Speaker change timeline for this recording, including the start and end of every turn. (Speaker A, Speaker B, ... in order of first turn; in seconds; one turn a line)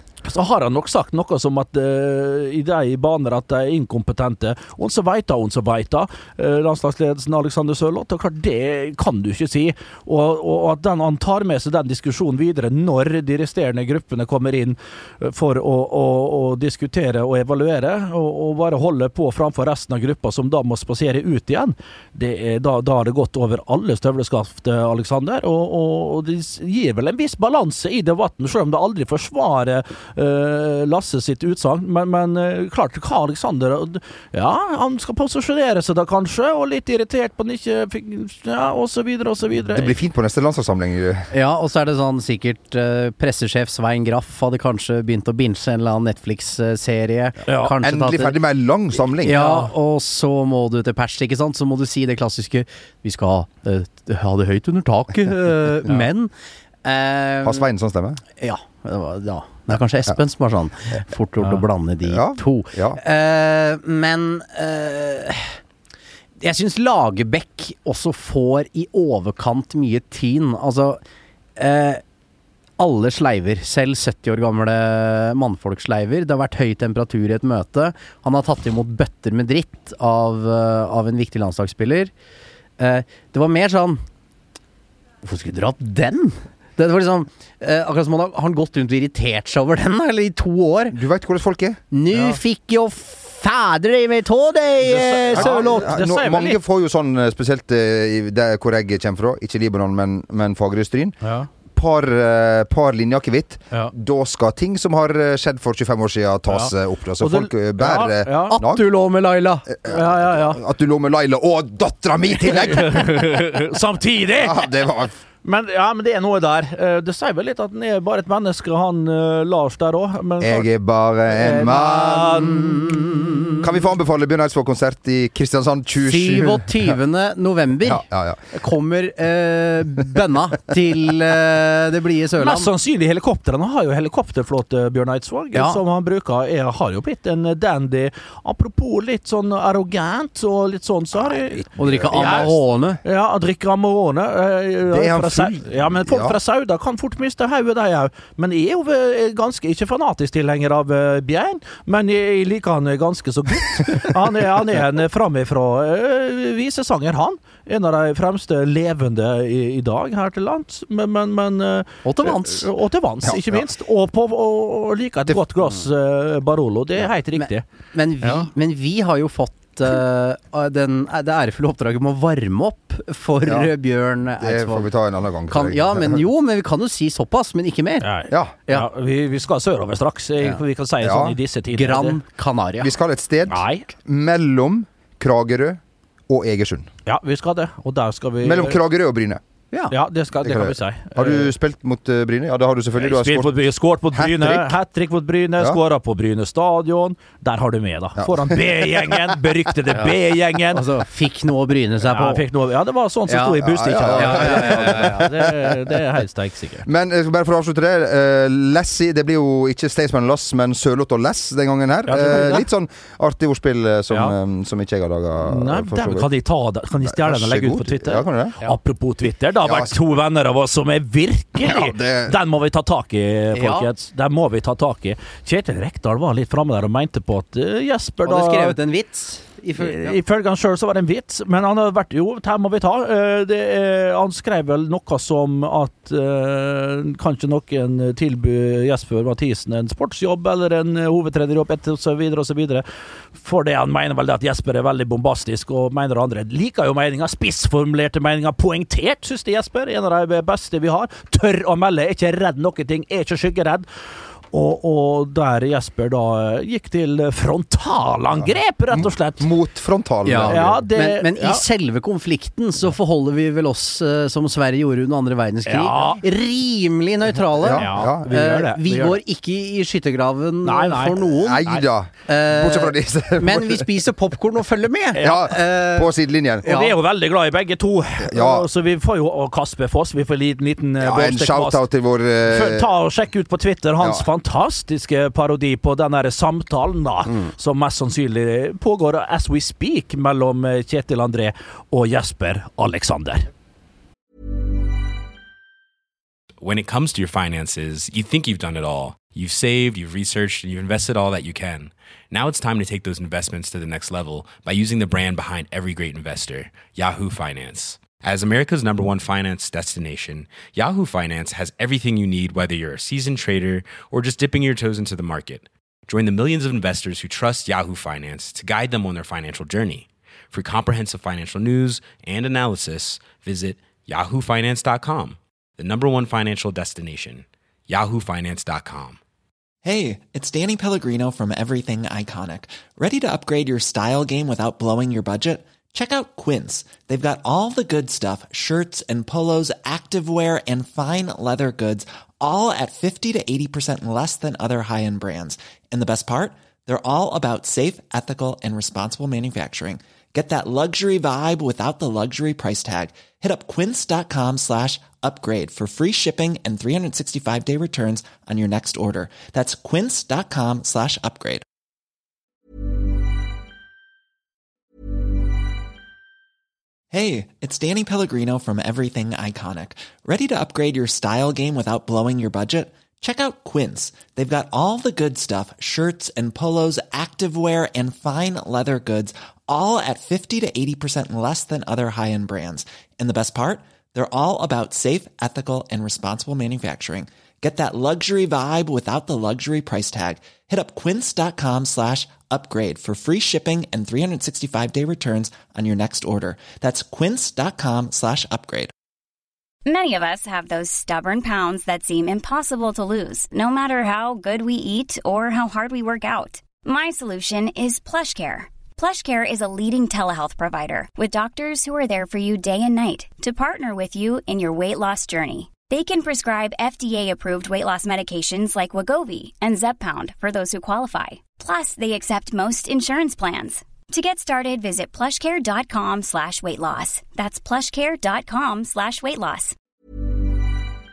Speaker A: 0.2-39.9
Speaker B: 39.5-41.3
Speaker C: 41.3-48.4
Speaker A: 47.5-47.8
Speaker B: 47.8-49.4
Speaker C: 49.2-56.3
Speaker A: 49.3-49.7
Speaker C: 56.8-57.6
Speaker B: 57.4-58.2
Speaker C: 58.4-65.5
Speaker B: 62.0-63.0
Speaker C: 66.4-71.0
Speaker C: 71.6-72.0
Speaker C: 72.8-82.1
Speaker C: 82.8-84.0
Speaker C: 85.2-91.0
Speaker B: 90.9-91.8
Speaker C: 91.9-95.9
Speaker A: 92.1-92.4
Speaker A: 94.8-96.6
Speaker B: 95.3-101.2
Speaker A: 101.2-101.5
Speaker B: 101.7-108.9
Speaker A: 106.5-108.6
Speaker C: 108.5-109.7
Speaker B: 109.7-113.4
Speaker A: 109.8-110.6
Speaker A: 112.5-114.7
Speaker B: 114.3-115.1
Speaker A: 115.4-120.7
Speaker B: 120.4-122.4
Speaker A: 121.3-122.6
Speaker C: 122.0-123.6
Speaker B: 123.6-126.9
Speaker C: 126.0-132.7
Speaker B: 127.8-128.5
Speaker A: 132.4-167.6
Speaker C: 135.5-135.8
Speaker B: 141.1-142.6
Speaker C: 141.8-143.0
Speaker B: 144.9-146.4
Speaker C: 162.0-162.7
Speaker B: 163.2-163.6
Speaker C: 167.3-174.8
Speaker B: 173.4-173.7
Speaker B: 174.4-176.2
Speaker C: 175.5-178.1
Speaker A: 178.0-182.2
Speaker B: 178.3-178.5
Speaker B: 181.0-181.4
Speaker C: 181.7-182.9
Speaker B: 182.8-186.9
Speaker A: 183.5-183.9
Speaker A: 187.1-188.8
Speaker B: 188.4-189.4
Speaker A: 189.9-191.5
Speaker B: 190.4-193.6
Speaker A: 192.9-200.8
Speaker B: 194.1-194.8
Speaker B: 198.2-199.4
Speaker C: 200.7-202.4
Speaker A: 202.1-206.9
Speaker C: 203.3-205.4
Speaker B: 203.4-205.5
Speaker B: 206.8-216.3
Speaker A: 212.1-212.7
Speaker A: 214.1-214.3
Speaker A: 215.4-228.8
Speaker B: 217.0-218.6
Speaker B: 219.6-219.9
Speaker B: 221.6-222.3
Speaker C: 223.5-223.9
Speaker C: 228.2-230.2
Speaker A: 229.8-242.8
Speaker A: 243.4-253.8
Speaker A: 254.5-259.5
Speaker B: 258.4-260.8
Speaker C: 260.2-271.6
Speaker A: 260.4-261.6
Speaker A: 265.6-266.2
Speaker B: 267.6-268.3
Speaker A: 267.6-269.2
Speaker A: 270.6-271.8
Speaker B: 271.3-273.9
Speaker C: 272.3-276.1
Speaker A: 275.1-275.4
Speaker B: 275.2-276.7
Speaker C: 276.6-277.0
Speaker A: 276.6-281.9
Speaker B: 278.2-278.7
Speaker B: 281.0-282.9
Speaker A: 282.4-293.5
Speaker B: 284.0-284.2
Speaker D: 296.6-329.2
Speaker E: 329.8-361.6
Speaker E: 367.1-398.9
Speaker F: 399.8-429.7